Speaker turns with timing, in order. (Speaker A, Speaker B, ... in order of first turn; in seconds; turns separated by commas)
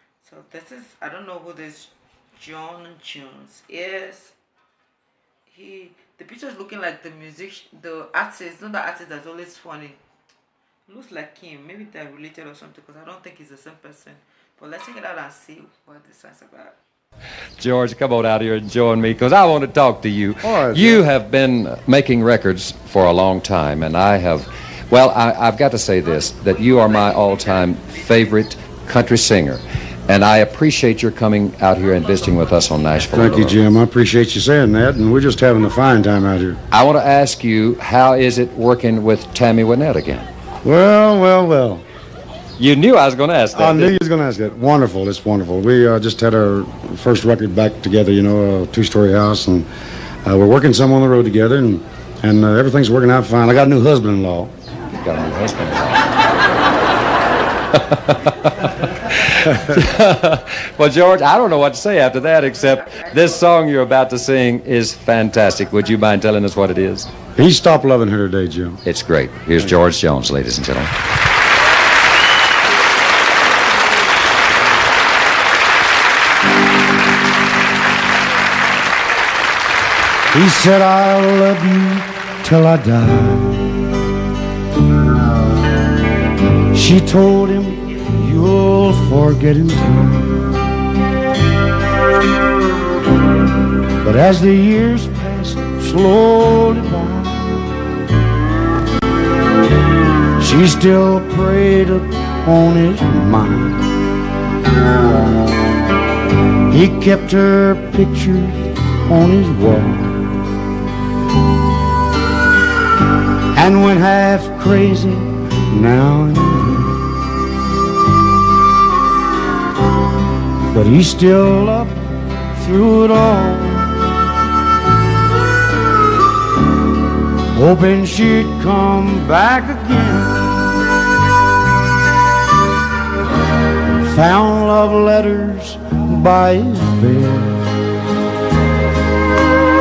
Speaker A: 0.2-4.4, Speaker A: 5.5-10.0, Speaker A: 10.9-16.8, Speaker B: 17.6-33.6, Speaker C: 20.4-21.1, Speaker C: 33.1-36.6, Speaker B: 36.7-40.3, Speaker C: 40.6-41.8, Speaker B: 42.6-44.0, Speaker C: 43.5-49.7, Speaker C: 50.2-54.5, Speaker B: 55.0-56.1, Speaker B: 57.8-67.1, Speaker C: 67.4-68.8, Speaker B: 68.8-70.9, Speaker C: 80.3-83.8, Speaker C: 86.7-90.5, Speaker C: 94.0-97.7, Speaker C: 100.4-103.8, Speaker C: 106.7-110.2, Speaker C: 113.5-117.0, Speaker C: 120.7-122.0, Speaker C: 122.5-124.0, Speaker C: 127.5-130.7, Speaker C: 133.8-137.6